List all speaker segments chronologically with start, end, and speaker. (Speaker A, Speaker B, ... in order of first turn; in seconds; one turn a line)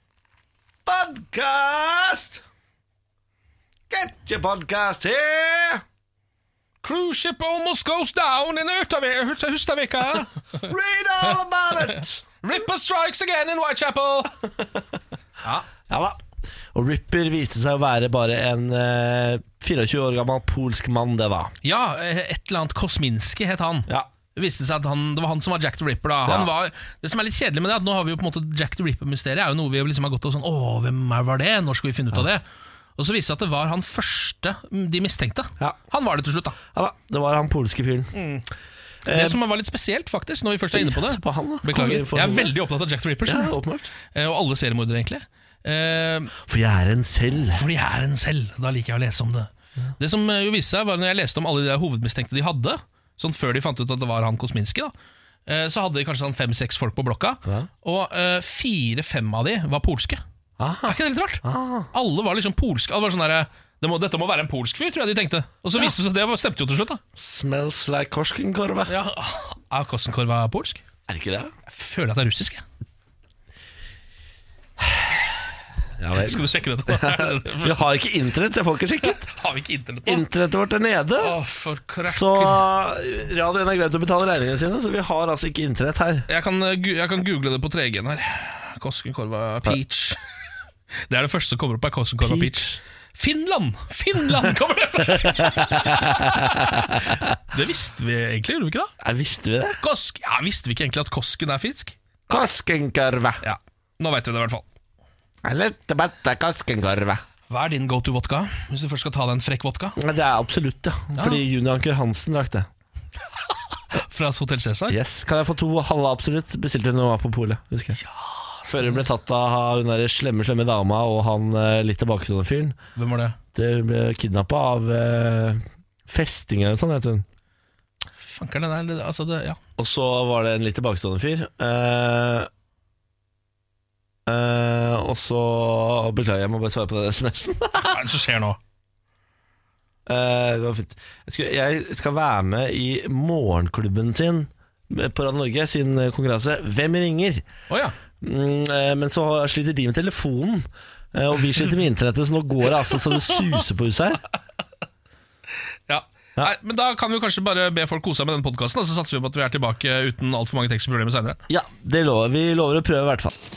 Speaker A: 0.8-2.4
Speaker A: 3.9-5.8
Speaker B: 6.8-10.7
Speaker A: 10.6-12.2
Speaker B: 11.8-14.3
Speaker B: 15.4-15.7
Speaker A: 15.9-16.2
Speaker A: 16.7-21.5
Speaker B: 21.6-32.4
Speaker B: 33.0-36.5
Speaker A: 36.7-38.1
Speaker B: 38.1-38.5
Speaker A: 39.0-39.4
Speaker B: 39.1-43.5
Speaker A: 40.7-42.5
Speaker A: 43.2-43.9
Speaker B: 44.1-46.3
Speaker A: 46.4-47.6
Speaker B: 47.5-54.9
Speaker B: 55.5-60.2
Speaker A: 60.6-61.9
Speaker B: 60.8-61.4
Speaker B: 61.9-67.0
Speaker A: 67.2-68.9
Speaker B: 68.9-70.8
Speaker A: 71.1-71.5
Speaker B: 71.7-72.6
Speaker A: 74.8-75.1
Speaker A: 76.0-79.2
Speaker B: 76.1-77.9
Speaker B: 79.0-80.2
Speaker A: 80.0-81.4
Speaker B: 81.2-82.6
Speaker A: 82.1-86.3
Speaker B: 86.3-90.2
Speaker B: 91.1-98.9
Speaker A: 92.2-92.8
Speaker A: 95.1-97.2
Speaker A: 99.0-99.8
Speaker B: 99.8-102.0
Speaker A: 102.3-103.4
Speaker B: 103.4-104.7
Speaker A: 105.4-107.2
Speaker B: 107.5-110.0
Speaker A: 110.0-112.7
Speaker B: 111.2-111.4
Speaker B: 113.4-115.0
Speaker A: 114.9-118.0
Speaker B: 118.0-119.0
Speaker A: 118.7-122.8
Speaker B: 123.0-123.4
Speaker A: 123.5-127.2
Speaker B: 128.2-129.6
Speaker A: 129.8-132.5
Speaker A: 134.3-138.0
Speaker B: 137.8-138.6
Speaker A: 140.1-147.4
Speaker B: 147.7-147.9
Speaker A: 148.2-154.2
Speaker B: 155.9-161.4
Speaker A: 161.5-163.3